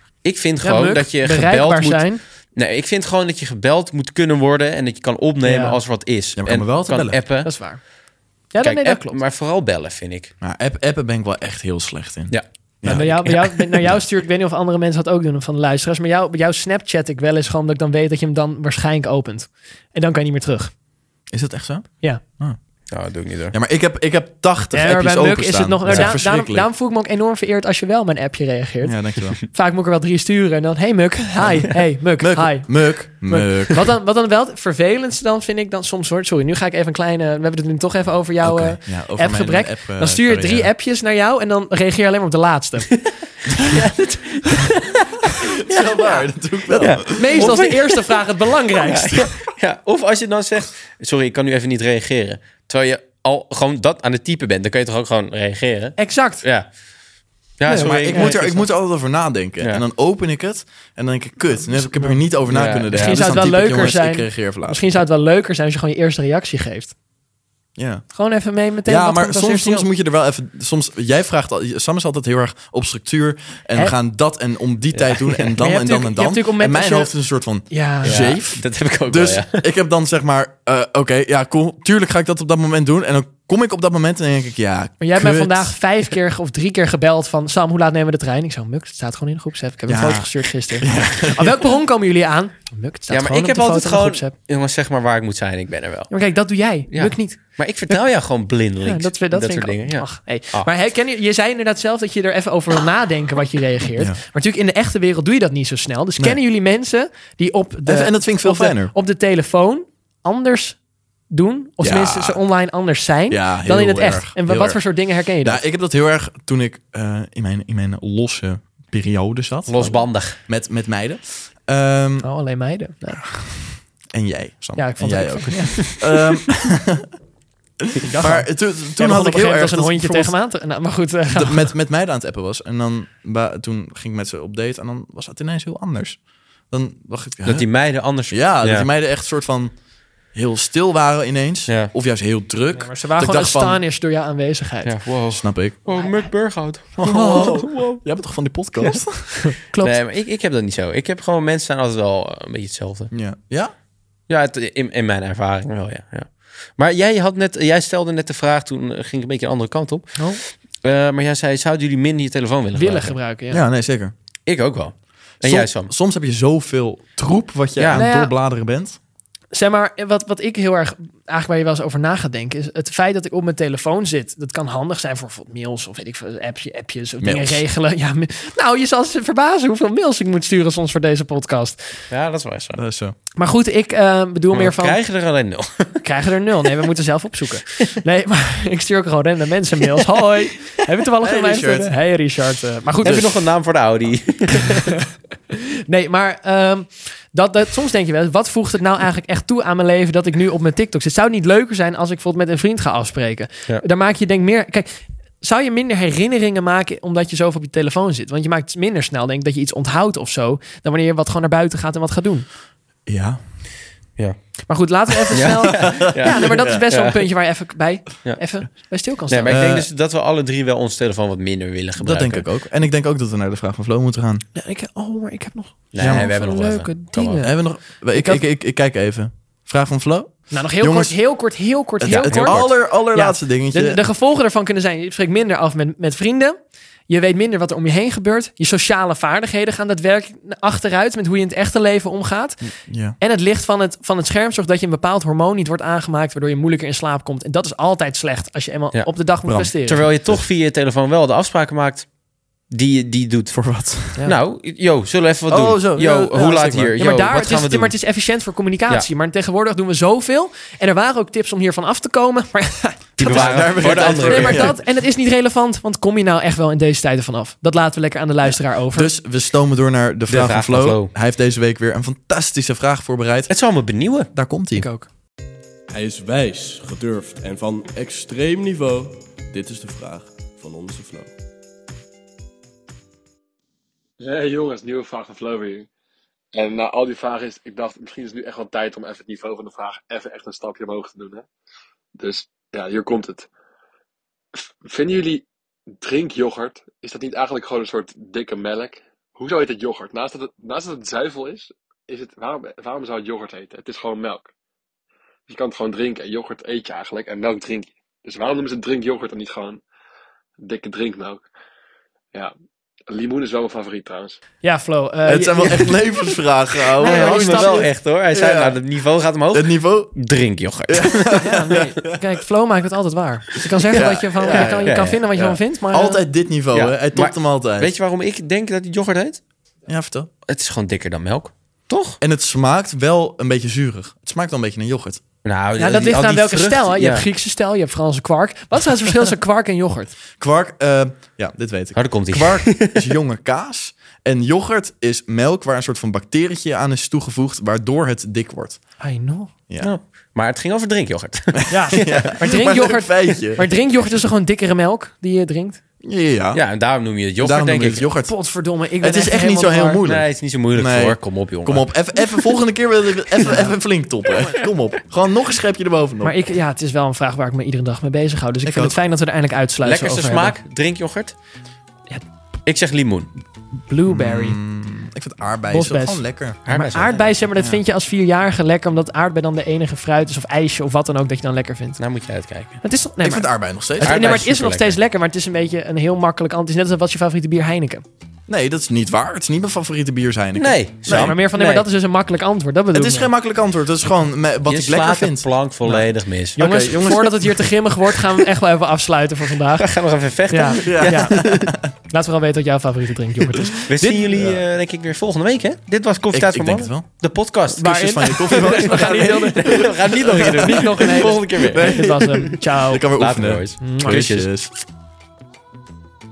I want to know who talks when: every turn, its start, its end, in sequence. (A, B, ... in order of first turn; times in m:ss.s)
0:00.2-0:07.6 A
0:00.6-0:02.2 B
0:05.4-0:05.8 B
0:06.4-0:07.2 C
0:07.4-0:07.8 B
0:08.5-0:09.2 B
0:08.6-0:10.3 A
0:10.4-0:14.0 C
0:12.3-0:14.0 A
0:12.8-0:20.7 B
0:21.3-0:22.6 C
0:22.9-0:23.6 A
0:23.5-0:26.7 C
0:24.7-0:43.8 B
0:25.9-0:26.2 A
0:28.8-0:29.4 C
0:31.8-0:33.9 C
0:38.4-0:40.7 C
0:43.6-0:45.1 A
0:45.6-0:47.6 C
0:45.7-0:48.2 A
0:47.1-0:49.4 B
0:48.8-0:56.7 A
0:56.0-0:56.4 B
0:57.6-0:58.7 A
0:57.7-0:58.4 B
0:57.7-1:05.0 C
1:01.7-1:02.2 B
1:02.5-1:03.4 A
1:02.9-1:06.9 B
1:07.8-1:08.1 C
1:08.1-1:09.9 B
1:08.8-1:25.8 C
1:14.9-1:15.4 A
1:15.6-1:17.1 B
1:17.7-1:18.4 B
1:18.0-1:19.7 A
1:25.0-1:34.3 B
1:29.9-1:31.6 C
1:33.1-1:36.1 A
1:36.1-1:38.0 B
1:36.9-1:40.7 A
1:38.8-1:55.6 B
1:47.9-1:48.9 C
1:51.8-1:52.4 C
1:53.3-1:54.8 C
1:55.4-2:02.3 C
1:59.7-2:00.4 A
2:02.2-2:03.4 B
2:03.2-2:07.1 C
2:04.8-2:06.1 B
2:07.8-2:10.4 C
2:08.0-2:11.7 B
2:11.3-2:19.8 C
2:17.4-2:18.9 A
2:20.3-2:23.8 C
2:21.7-2:21.9 A
2:22.7-2:25.2 B
2:24.8-2:28.1 A
2:25.3-2:25.8 C
2:25.9-2:26.3 B
2:27.0-2:29.5 C
2:27.1-2:27.4 B
2:28.8-2:29.1 A
2:29.5-2:30.0 B
2:29.6-2:33.1 A
2:33.1-2:33.7 C
2:34.3-2:43.2 A
2:42.8-2:43.6 B
2:43.5-2:44.1 C
2:44.5-2:45.9 A
2:45.4-2:49.0 C
2:47.8-2:48.0 A
2:48.0-2:48.4 B
2:49.5-3:02.0 B
2:57.2-2:57.6 C
3:02.1-3:02.8 A
3:02.8-3:03.2 C
3:03.4-3:05.0 B
3:04.5-3:06.0 A
3:06.0-3:13.3 B
3:11.2-3:11.9 C
3:13.0-3:14.9 A
3:15.5-3:32.5 B
3:33.1-3:33.4 C
3:34.7-3:39.6 B
3:35.3-3:37.3 A
3:35.8-3:36.8 C
3:39.3-3:42.5 A
3:39.5-3:39.9 C
3:42.0-3:44.4 C
3:44.6-3:48.4 B
3:45.9-3:47.5 A
3:46.0-3:46.3 C
3:47.4-3:51.2 C
3:50.5-3:56.6 B
3:52.0-3:54.0 C
3:52.0-3:52.7 A
3:57.1-4:10.1 B
4:02.9-4:03.2 C
4:09.4-4:09.7 C
4:09.8-4:12.1 A
4:12.7-4:13.6 A
4:13.5-4:14.2 C
4:14.1-4:18.0 A
4:15.5-4:16.9 C
4:17.0-4:29.1 B
4:23.2-4:24.8 A
4:23.2-4:24.8 C
4:28.9-4:33.5 C
4:30.3-4:31.1 A
4:33.5-4:34.3 A
4:34.3-4:34.9 C
4:34.7-4:35.1 B
4:35.9-4:41.3 D
4:44.2-4:45.9 E
4:46.5-4:51.5 E
4:52.2-4:53.5 E
4:54.6-4:55.5 E
4:56.0-5:04.5 E
5:05.5-5:09.8 E
5:10.6-5:11.4 E
5:13.1-5:14.4 E
5:14.6-5:16.0 B
5:15.3-5:18.8 C
5:17.0-5:17.9 B
5:17.0-5:21.4 A
5:19.5-5:20.2 C
5:20.9-5:22.2 C
5:21.4-5:26.2 B
5:23.9-5:27.9 C
5:23.9-5:25.6 A
5:26.7-5:29.4 A
5:29.9-5:30.3 C
5:30.5-5:32.2 A
5:32.2-5:35.2 C
5:35.4-5:37.3 A
5:35.8-5:40.2 B
5:40.4-5:49.0 C
5:42.0-5:43.1 A
5:49.0-5:49.5 B
5:49.7-5:49.9 C
5:49.8-5:52.3 A
5:51.7-5:53.7 C
5:51.7-5:55.8 B
5:56.0-5:56.6 C
5:56.5-5:58.1 A
5:57.4-5:58.4 C
5:58.3-6:00.0 B
5:59.0-6:06.4 C
6:00.0-6:02.3 A
6:06.2-6:10.6 B
6:08.6-6:09.0 C
6:09.8-6:11.4 A
6:12.7-6:13.3 A
6:13.9-6:14.6 B
6:14.1-6:16.7 C
6:15.7-6:22.1 B
6:16.7-6:17.3 A
6:17.6-6:17.8 C
6:22.0-6:22.8 A
6:22.8-6:28.0 B
6:23.2-6:24.4 C
6:24.0-6:25.0 A
6:28.5-6:31.4 C
6:30.6-6:31.9 A
6:31.1-6:33.3 B
6:32.9-6:36.0 C
6:34.7-6:36.7 A
6:36.6-6:40.0 B
6:36.6-6:37.6 C
6:39.8-6:41.7 A
6:40.5-6:44.3 B
6:40.8-6:41.9 C
6:43.9-6:52.1 A
6:44.4-6:44.6 C
6:46.3-6:47.1 C
6:47.8-6:50.8 C
6:47.8-6:53.1 B
6:51.7-6:54.7 C
6:53.2-6:54.5 A
6:53.8-6:54.3 B